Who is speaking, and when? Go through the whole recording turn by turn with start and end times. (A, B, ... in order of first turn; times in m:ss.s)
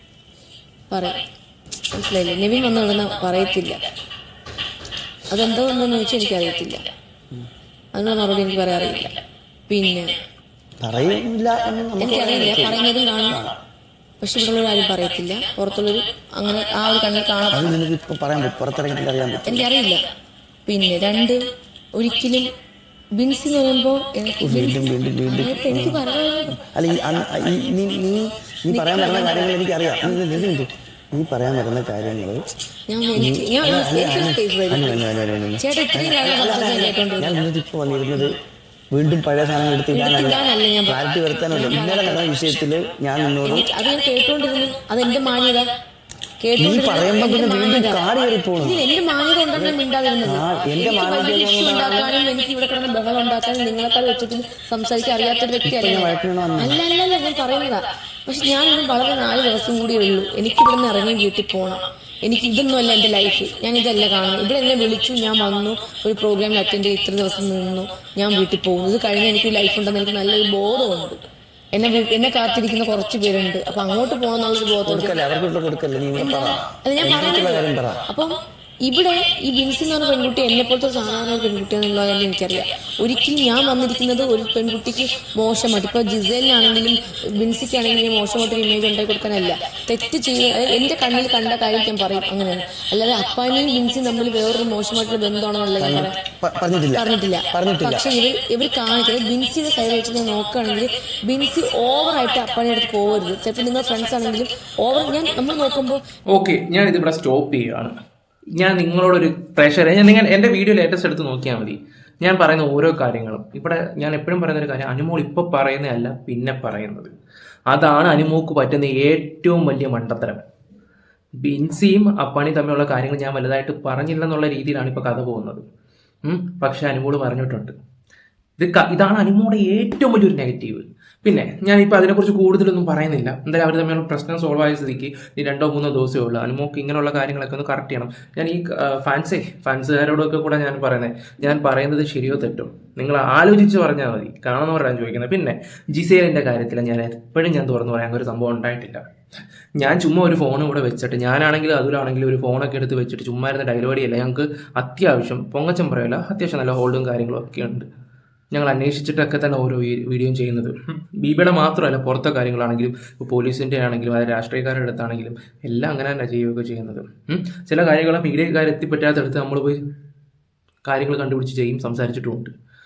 0:00.9-0:01.2 A
0:01.9-0:03.8 A
0:05.3-0:06.9 A
0:07.9-0:10.0 A
0:10.8-0:12.7 B
0:12.0-0:13.4 A
0:14.2-0:17.8 A
0:17.5-0:19.7 B
0:19.4-0:20.0 A
0:20.6-0:21.4 A
0:21.9-0:22.5 A
0:23.1-0:26.6 A
0:24.4-0:26.0 B
0:26.6-0:32.4 B
0:28.7-0:30.4 A
0:32.9-0:37.4 A
0:33.2-0:38.3 B
0:38.9-0:43.7 B
0:39.9-0:42.3 A
0:43.4-0:45.7 A
0:46.4-0:48.0 A
0:46.6-0:48.7 B
0:48.6-1:11.2 A
0:49.5-0:51.8 B
0:55.6-0:56.7 B
1:11.7-1:15.2 A
1:14.9-1:18.0 B
1:16.1-1:18.3 A
1:18.8-1:36.2 A
1:35.8-1:38.1 B
1:36.9-1:46.0 A
1:46.3-1:47.9 C
1:48.6-1:57.1 C
1:57.7-2:00.4 C
2:01.4-2:05.6 C
2:06.2-2:07.7 C
2:08.6-2:29.0 C
2:29.8-2:37.9 C
2:38.5-2:49.8 C
2:50.8-2:52.5 C